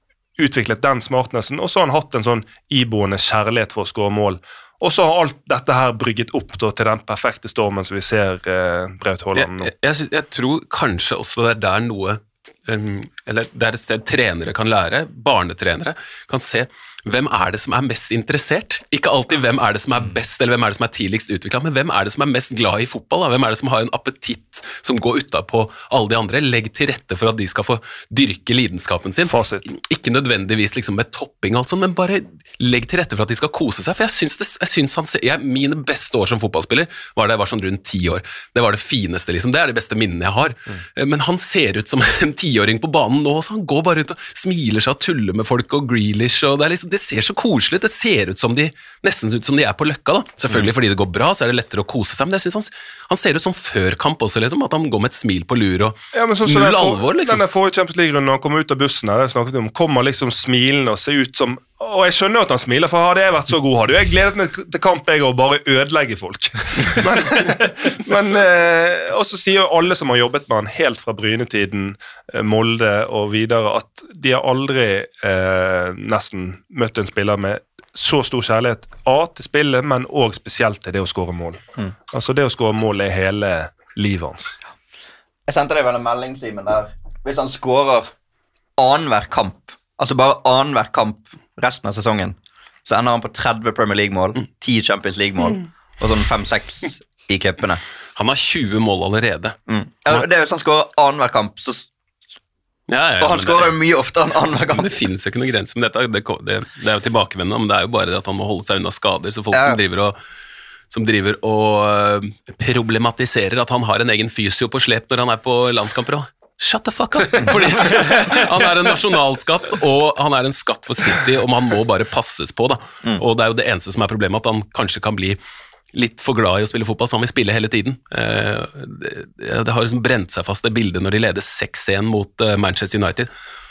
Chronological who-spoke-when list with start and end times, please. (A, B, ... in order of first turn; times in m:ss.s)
0:00.4-0:09.7 A
0:09.3-0:57.4 B
0:29.3-0:29.6 A
0:56.1-1:24.6 A
1:25.5-1:28.1 C
1:28.8-1:37.8 C
1:38.2-1:39.6 B
1:39.7-1:41.9 C
1:42.9-1:43.7 B
1:43.2-1:44.9 C
1:44.7-1:50.2 B
1:49.5-1:49.8 C
1:50.9-2:05.4 B
2:05.9-2:13.3 B